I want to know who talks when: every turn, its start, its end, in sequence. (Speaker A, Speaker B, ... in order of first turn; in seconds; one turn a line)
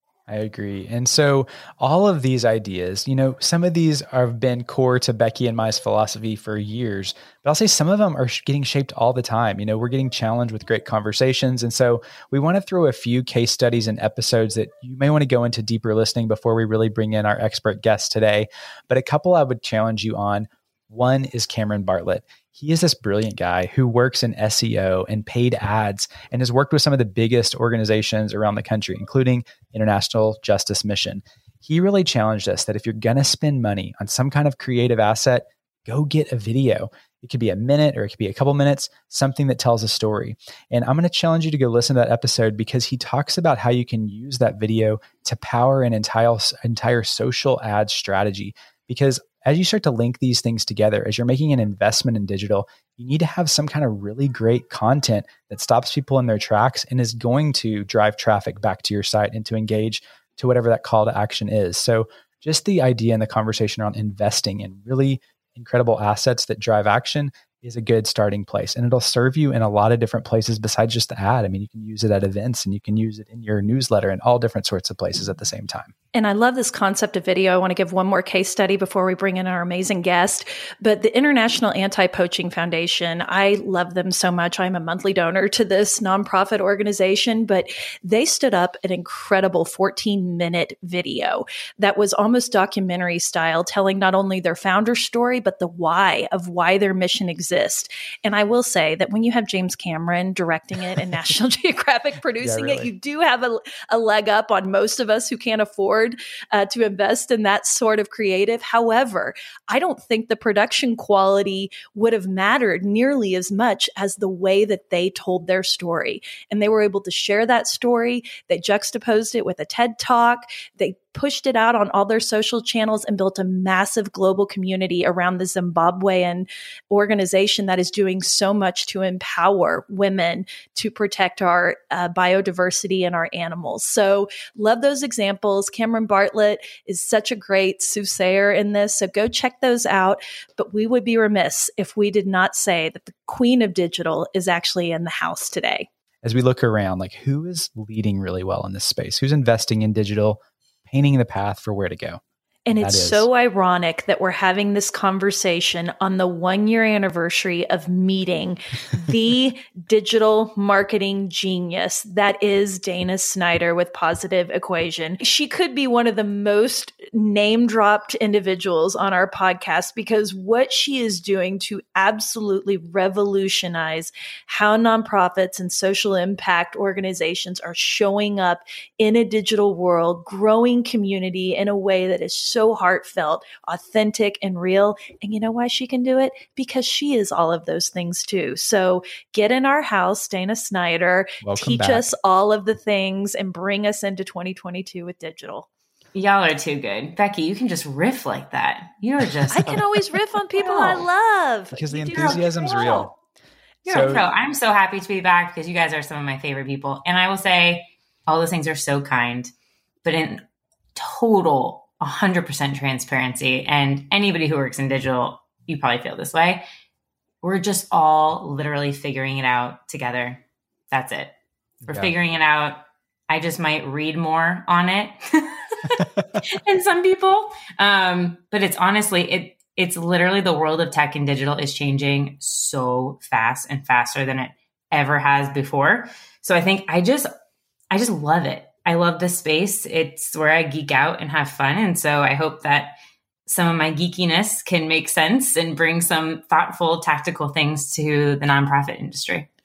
Speaker A: 0.3-75.9
Speaker B: 76.1-145.9
Speaker A: 102.4-102.9
Speaker A: 146.2-152.2
Speaker B: 152.7-195.7
Speaker A: 152.8-153.3
Speaker A: 191.4-192.1
Speaker C: 196.1-200.0
Speaker B: 199.5-203.1
Speaker C: 200.6-201.1
Speaker A: 201.7-203.1
Speaker A: 203.8-204.2
Speaker C: 203.8-209.5
Speaker C: 210.0-210.4
Speaker C: 210.9-216.6
Speaker C: 217.4-221.3
Speaker C: 221.8-237.3
Speaker A: 221.9-222.1
Speaker A: 225.9-226.4
Speaker C: 237.9-242.9
Speaker C: 243.5-249.5